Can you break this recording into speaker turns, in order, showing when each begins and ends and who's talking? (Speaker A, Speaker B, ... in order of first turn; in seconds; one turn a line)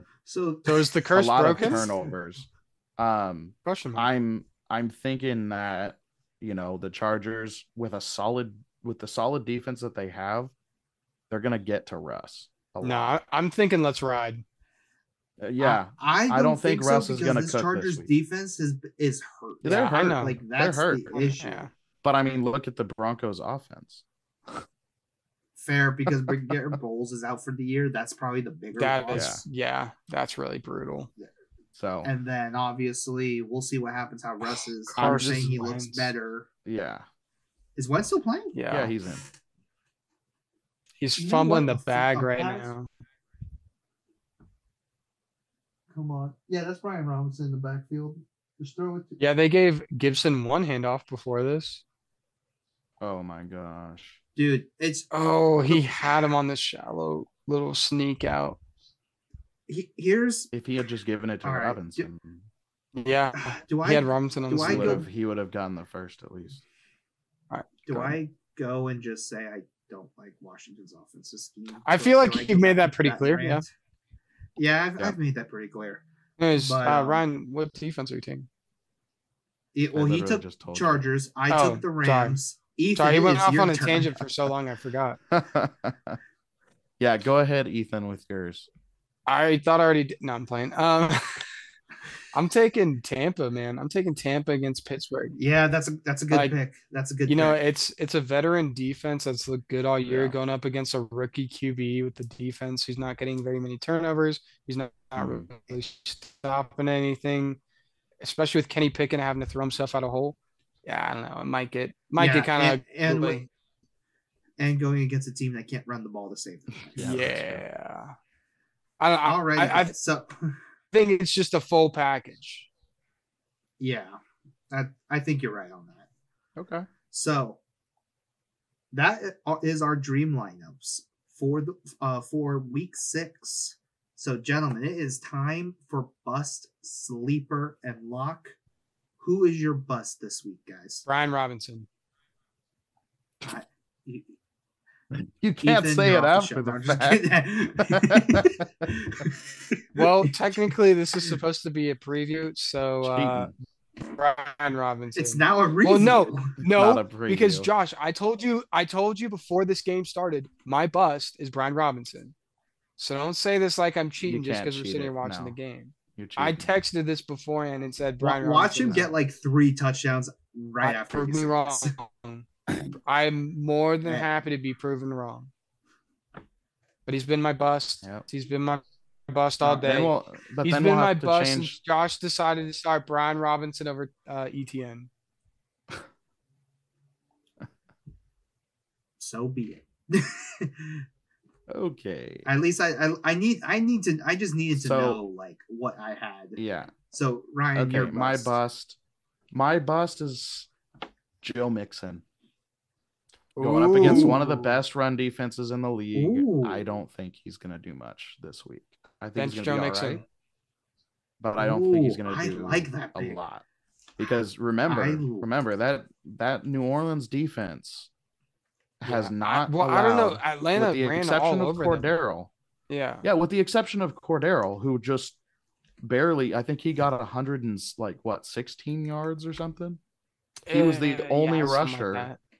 Speaker A: 0.2-2.1
Speaker B: 0.7-1.9
Speaker C: 1.1-2.5
Speaker C: 3.0-10.5
Speaker B: 3.6-4.1
Speaker C: 11.3-13.1
Speaker B: 12.8-14.4
Speaker C: 15.4-18.1
Speaker A: 15.6-21.7
Speaker B: 19.6-20.4
Speaker C: 19.6-21.3
Speaker B: 21.1-21.7
Speaker C: 22.0-24.6
Speaker A: 25.6-29.4
Speaker C: 26.1-26.7
Speaker B: 28.8-31.1
Speaker C: 29.1-29.4
Speaker C: 31.7-32.1
Speaker A: 32.0-36.5
Speaker B: 34.5-36.1
Speaker C: 35.0-35.6
Speaker C: 36.6-37.0
Speaker A: 37.8-38.6
Speaker B: 38.5-38.9
Speaker C: 38.7-39.2
Speaker B: 41.0-42.9
Speaker A: 41.2-42.7
Speaker A: 45.9-49.2
Speaker B: 49.2-51.8
Speaker C: 53.0-54.2
Speaker A: 54.4-55.1
Speaker B: 55.1-58.6
Speaker A: 55.7-56.3
Speaker A: 59.7-60.5
Speaker C: 60.5-62.4
Speaker A: 61.4-62.1
Speaker B: 62.9-65.0
Speaker A: 63.4-65.0
Speaker C: 64.6-66.6
Speaker B: 67.5-68.2
Speaker A: 67.8-73.7
Speaker B: 71.8-73.6
Speaker A: 74.6-76.0
Speaker B: 76.4-78.5
Speaker A: 76.5-77.2
Speaker A: 79.7-84.2
Speaker C: 79.9-81.1
Speaker B: 81.5-82.4
Speaker B: 83.0-85.2
Speaker C: 85.3-86.2
Speaker C: 87.0-88.7
Speaker B: 89.2-91.4
Speaker B: 92.3-95.3
Speaker A: 95.3-97.6
Speaker B: 96.3-96.6
Speaker B: 97.3-107.6
Speaker C: 100.0-100.4
Speaker C: 105.2-105.5
Speaker B: 108.2-113.5
Speaker A: 112.2-113.4
Speaker A: 114.6-117.2
Speaker C: 117.0-117.6
Speaker B: 117.0-118.2
Speaker B: 119.0-119.9
Speaker A: 119.2-120.6
Speaker B: 120.9-122.7
Speaker A: 123.8-124.2
Speaker A: 124.7-126.1
Speaker C: 126.5-126.9
Speaker A: 127.1-127.6
Speaker A: 128.9-138.5
Speaker A: 139.2-141.1
Speaker B: 141.1-141.9
Speaker A: 143.4-144.3
Speaker C: 145.1-148.9
Speaker A: 145.6-150.7
Speaker B: 149.9-153.5
Speaker C: 153.0-153.5
Speaker B: 154.1-162.3
Speaker A: 155.1-156.6
Speaker C: 156.7-157.7
Speaker B: 163.0-169.1
Speaker C: 164.2-165.6
Speaker C: 166.2-166.7
Speaker A: 168.2-171.9
Speaker B: 170.8-175.5
Speaker B: 177.1-185.1
Speaker C: 179.7-181.8
Speaker A: 189.2-191.0
Speaker C: 191.7-192.4
Speaker A: 192.4-196.6
Speaker C: 194.8-195.2
Speaker C: 196.6-196.9
Speaker A: 197.1-198.5
Speaker C: 197.7-199.0
Speaker C: 199.5-200.7
Speaker C: 201.4-202.2
Speaker B: 203.6-204.7
Speaker C: 203.6-210.2
Speaker A: 204.0-204.4
Speaker A: 206.1-206.8
Speaker B: 209.3-210.2
Speaker C: 211.4-213.6
Speaker A: 211.6-213.4
Speaker C: 214.2-218.1
Speaker A: 214.9-215.5
Speaker C: 219.0-222.5
Speaker B: 219.0-222.1
Speaker B: 222.9-223.2
Speaker C: 223.2-225.4
Speaker C: 226.0-230.0
Speaker B: 230.7-232.4
Speaker C: 230.7-232.3